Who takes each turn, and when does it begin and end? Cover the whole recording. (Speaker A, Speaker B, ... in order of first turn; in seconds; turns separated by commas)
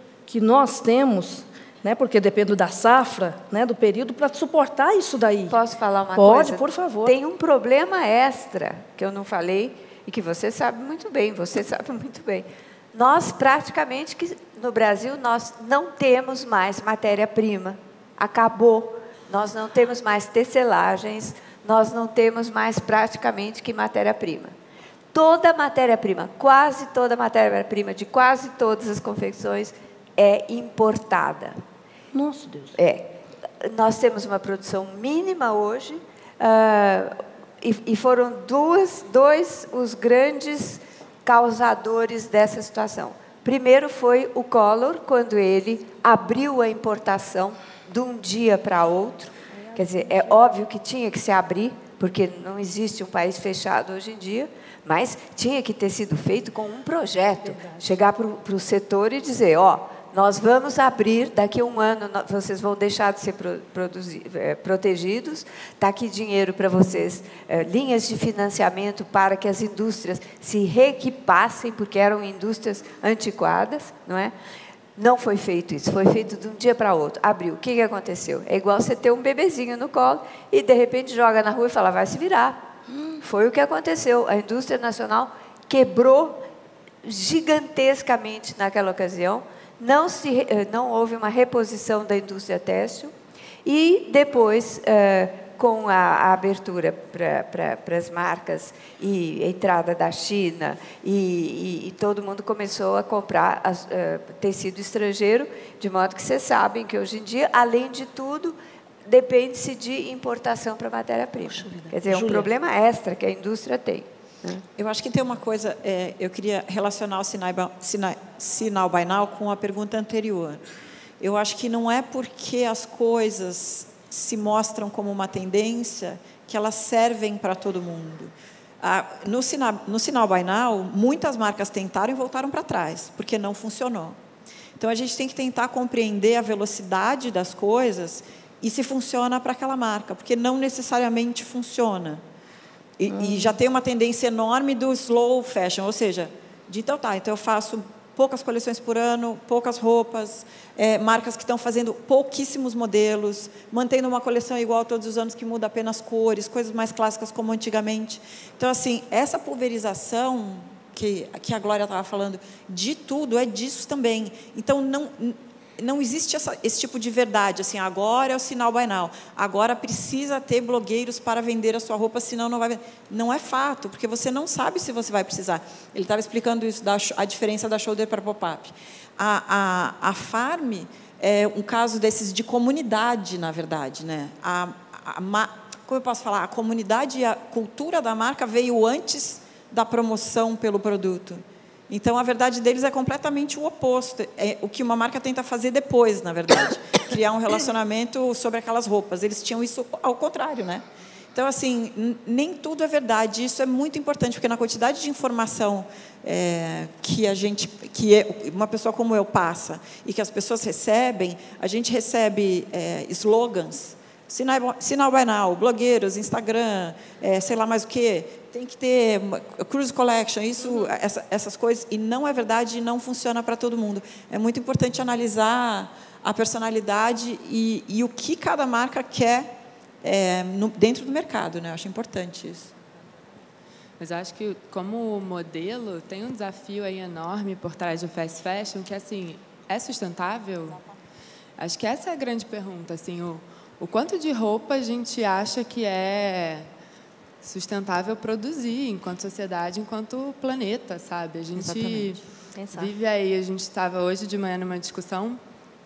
Speaker A: 0.3-5.5, Speaker B: 5.5-24.5, Speaker A: 6.2-7.1, Speaker B: 25.1-31.6, Speaker A: 32.1-32.8, Speaker B: 32.8-74.3, Speaker A: 49.6-50.1, Speaker A: 57.4-57.8, Speaker B: 75.0-82.7, Speaker B: 83.2-86.5, Speaker B: 87.0-93.1, Speaker B: 93.6-114.6, Speaker A: 111.5-112.5, Speaker C: 114.8-120.6, Speaker C: 121.2-134.2, Speaker C: 134.8-142.2, Speaker C: 143.0-229.5, Speaker A: 143.1-143.5, Speaker C: 230.0-232.7, Speaker D: 234.0-240.8, Speaker D: 241.6-246.7, Speaker D: 247.4-252.2, Speaker A: 251.6-252.9, Speaker D: 252.7-255.4